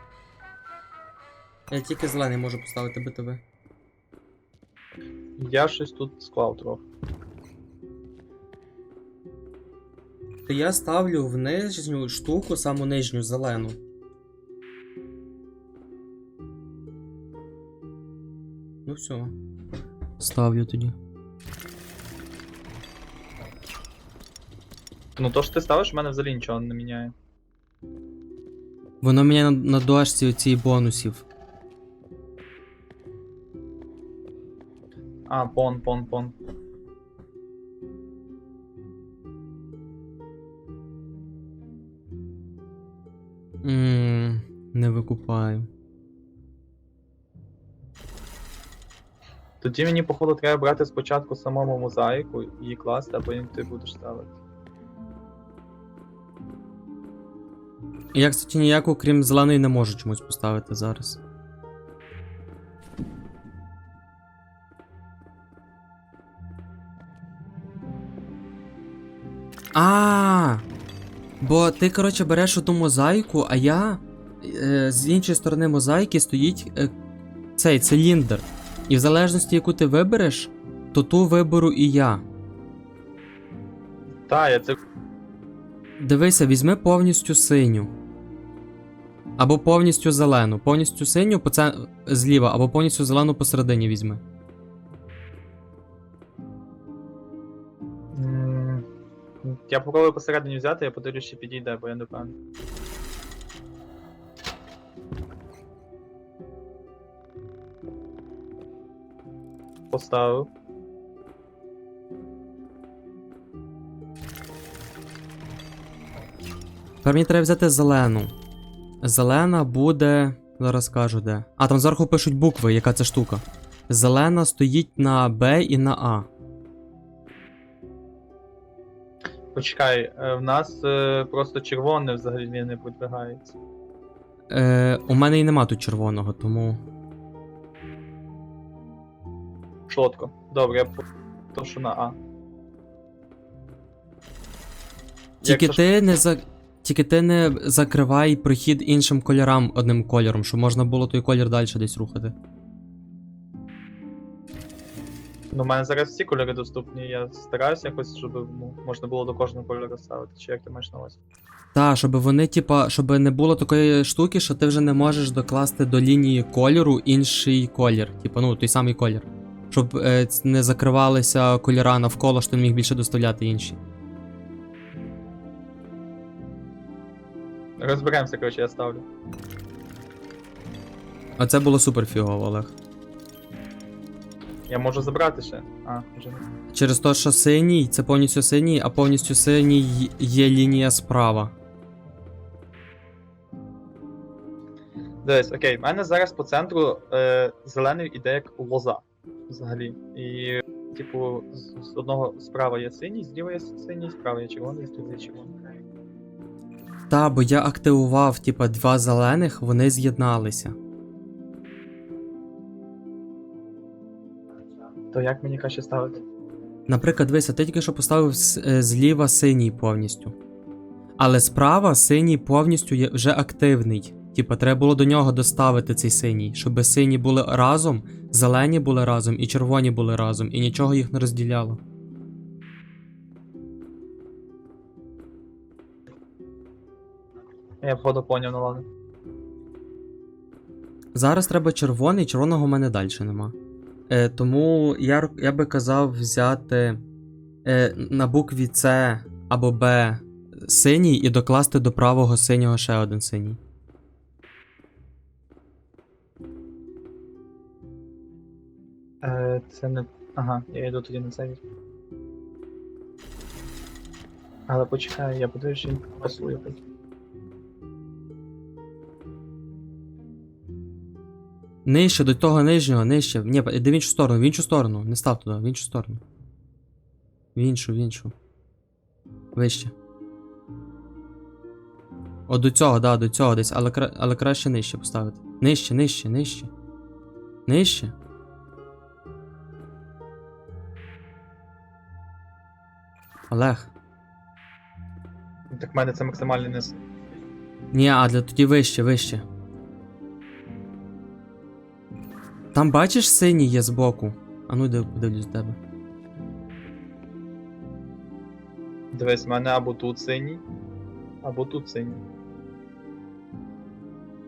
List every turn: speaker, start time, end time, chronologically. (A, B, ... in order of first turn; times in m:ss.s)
0:01.7-0:03.4 A
0:05.4-0:06.8 B
0:10.4-0:13.8 A
0:18.8-0:19.3 A
0:20.2-0:21.0 A
0:25.2-0:27.1 B
0:29.0-0:31.2 A
0:35.3-0:36.3 B
0:43.6-0:45.7 A
0:49.6-0:54.3 B
0:58.1-1:01.2 A
1:09.7-1:10.6 A
1:11.4-1:16.9 A
1:17.6-1:22.2 A
1:24.3-1:24.8 B
1:26.0-1:27.9 A
1:29.4-1:34.2 A
1:38.1-1:38.8 B
1:39.4-1:42.3 B
1:49.9-1:50.5 B
1:57.0-1:58.3 A
1:59.0-2:06.3 A
2:09.5-2:13.6 B
2:14.5-2:16.8 A
2:19.9-2:22.2 B
2:25.4-2:25.8 B
2:25.4-2:32.4 A
2:35.5-2:41.2 B
2:41.7-2:53.8 A
2:57.8-2:59.0 B
3:01.4-3:02.8 A
3:04.7-3:06.4 B
3:06.7-3:11.5 A
3:15.2-3:25.5 B
3:27.1-3:30.8 A
3:35.1-3:36.2 B
3:36.9-3:40.3 A
3:41.2-3:51.8 A
3:57.8-3:58.8 B
4:01.1-4:03.6 A
4:04.1-4:07.0 A
4:07.6-4:13.6 A
4:19.2-4:21.6 B
4:24.7-4:26.8 B
4:31.8-4:36.2 A
4:37.5-4:38.3 A
4:39.5-4:39.9 A
4:42.5-4:46.7 A
4:47.6-4:48.1 A
4:53.5-4:53.9 A
4:55.7-4:57.0 B
4:57.9-4:59.4 A
5:02.7-5:05.8 A
5:09.1-5:10.6 B
5:11.4-5:12.2 B